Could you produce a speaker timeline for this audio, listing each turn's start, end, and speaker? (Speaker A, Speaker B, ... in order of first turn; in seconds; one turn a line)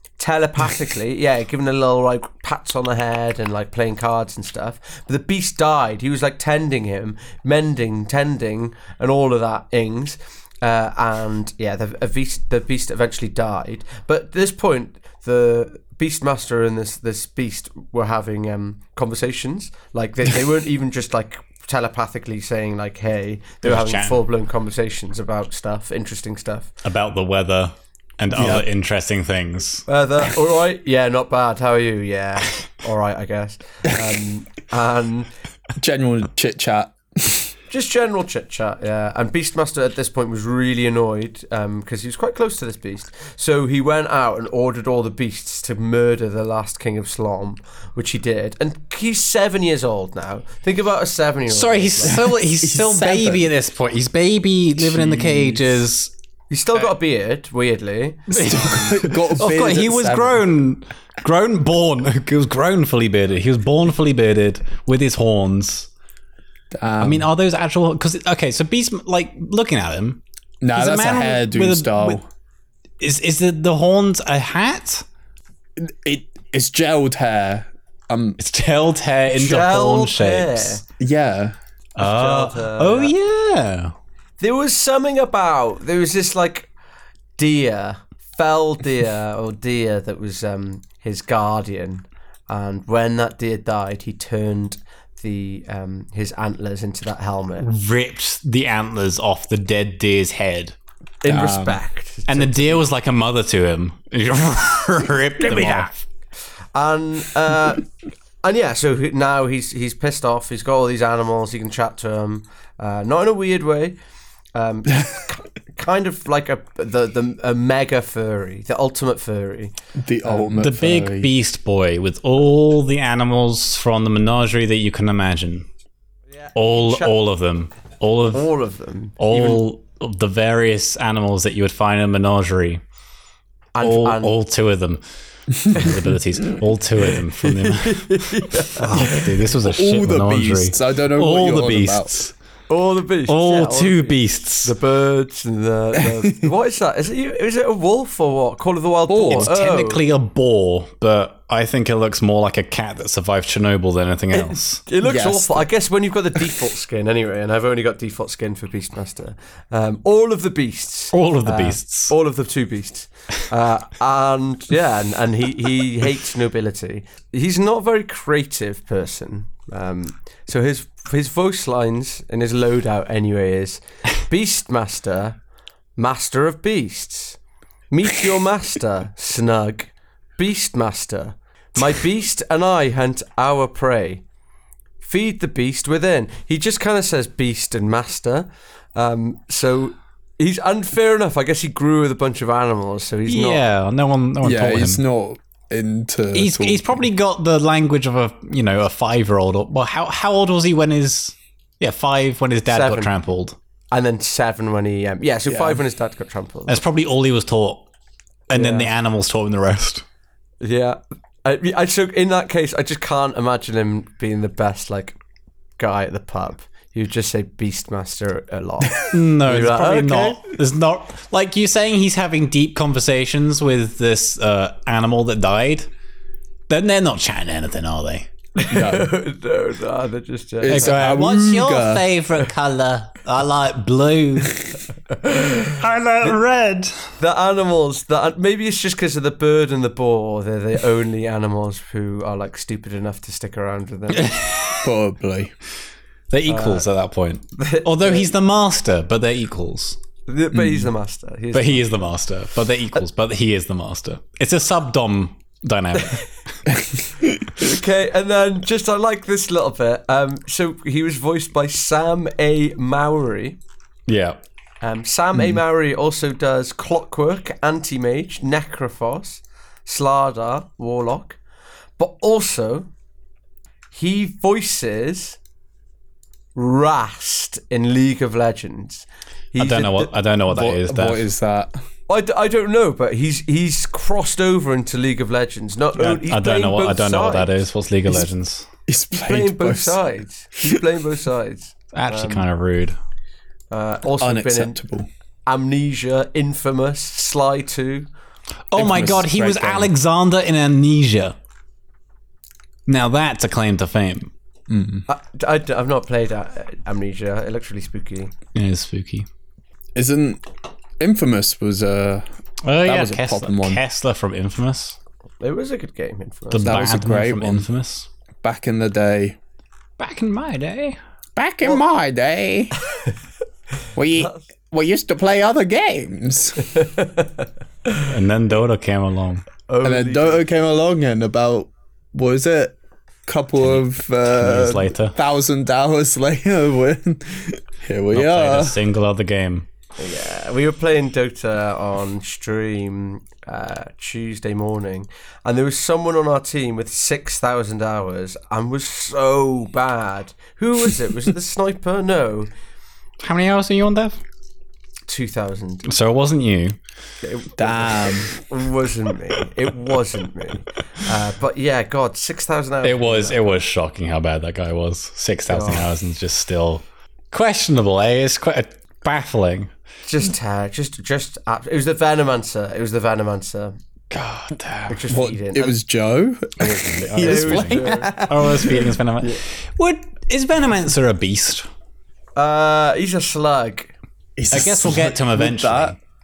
Speaker A: 0.2-26.7
Speaker B: 23.6-24.2
Speaker B: 26.8-29.9
Speaker C: 28.3-28.7
Speaker A: 29.9-35.3
Speaker C: 35.8-37.5
Speaker A: 37.7-52.2
Speaker B: 51.5-56.1
Speaker C: 52.0-53.5
Speaker C: 54.8-55.8
Speaker A: 56.5-59.1
Speaker C: 58.3-60.4
Speaker B: 58.3-65.9
Speaker C: 66.7-67.3
Speaker B: 67.0-70.2
Speaker C: 70.6-72.2
Speaker B: 70.7-72.2
Speaker B: 73.0-75.0
Speaker C: 75.8-78.4
Speaker B: 78.4-80.8
Speaker A: 79.3-80.8
Speaker C: 81.0-81.5
Speaker B: 82.0-83.9
Speaker A: 82.0-83.1
Speaker A: 84.4-86.7
Speaker A: 87.4-97.7
Speaker B: 97.6-100.7
Speaker A: 101.2-102.8
Speaker C: 101.2-101.8
Speaker B: 102.3-106.0
Speaker A: 105.4-105.9
Speaker A: 106.7-107.9
Speaker A: 108.4-114.0
Speaker A: 114.5-119.7
Speaker C: 120.0-121.3
Speaker B: 120.5-125.7
Speaker A: 126.4-127.1
Speaker B: 126.5-128.5
Speaker A: 128.3-129.2
Speaker B: 129.2-132.8
Speaker A: 133.7-134.3
Speaker B: 133.8-135.0
Speaker B: 135.6-142.3
Speaker A: 137.4-139.3
Speaker C: 138.9-142.1
Speaker A: 142.7-150.0
Speaker B: 143.3-144.7
Speaker C: 149.1-149.5
Speaker B: 149.2-154.8
Speaker A: 154.3-175.4
Speaker C: 155.0-155.7
Speaker B: 161.1-162.1
Speaker A: 176.0-177.4
Speaker A: 177.9-184.2
Speaker A: 185.0-193.6
Speaker B: 193.3-195.0
Speaker C: 194.4-197.0
Speaker B: 196.3-203.6
Speaker A: 202.7-203.1
Speaker A: 203.9-206.8
Speaker C: 205.4-205.8
Speaker B: 206.7-207.8
Speaker B: 208.5-210.0
Speaker A: 208.5-208.9
Speaker A: 210.6-215.2
Speaker A: 215.8-220.4
Speaker B: 219.1-225.9
Speaker B: 226.7-228.3
Speaker A: 228.6-231.0
Speaker C: 228.7-229.1
Speaker C: 230.6-232.0
Speaker B: 230.7-234.6
Speaker A: 235.2-236.4
Speaker B: 235.7-237.1
Speaker A: 237.2-244.3
Speaker B: 244.1-244.9
Speaker C: 244.8-245.5
Speaker B: 246.3-250.0
Speaker A: 246.5-246.9
Speaker A: 247.6-248.3
Speaker A: 250.3-252.1
Speaker C: 250.5-250.9
Speaker B: 251.5-256.3
Speaker C: 256.8-257.3
Speaker A: 257.6-263.6
Speaker B: 264.1-264.4
Speaker A: 264.8-271.4
Speaker A: 272.0-272.9
Speaker A: 273.9-275.4
Speaker A: 276.5-280.1
Speaker B: 279.6-281.2
Speaker C: 280.5-281.7
Speaker A: 282.1-287.6
Speaker B: 286.0-288.7
Speaker C: 288.9-290.0
Speaker A: 289.2-292.4
Speaker B: 291.9-293.0
Speaker A: 293.7-294.8
Speaker C: 294.2-295.1
Speaker A: 295.4-298.1
Speaker B: 298.7-301.3
Speaker C: 298.7-299.9
Speaker B: 302.9-304.3
Speaker C: 304.7-305.1
Speaker A: 305.1-308.3
Speaker B: 308.5-309.2
Speaker C: 309.9-310.4
Speaker C: 311.0-312.2
Speaker B: 312.6-315.0
Speaker C: 312.8-313.8
Speaker A: 315.4-316.8
Speaker B: 316.5-318.1
Speaker C: 316.6-317.6
Speaker C: 318.4-319.4
Speaker B: 320.0-321.0
Speaker C: 321.4-322.7
Speaker C: 323.9-326.7
Speaker A: 326.7-327.3
Speaker B: 328.1-329.5
Speaker A: 329.7-330.4
Speaker C: 329.8-338.8
Speaker B: 333.6-335.1
Speaker B: 338.1-339.6
Speaker A: 340.0-352.5
Speaker B: 353.2-354.2
Speaker A: 355.1-355.9
Speaker B: 355.9-356.8
Speaker A: 357.2-363.4
Speaker C: 357.6-358.3
Speaker B: 362.8-369.7
Speaker A: 365.5-365.9
Speaker A: 370.1-373.8
Speaker C: 374.1-379.4
Speaker A: 374.9-375.8
Speaker B: 376.6-381.7
Speaker A: 377.2-378.1
Speaker A: 382.4-383.9
Speaker C: 384.4-385.9
Speaker B: 384.5-386.0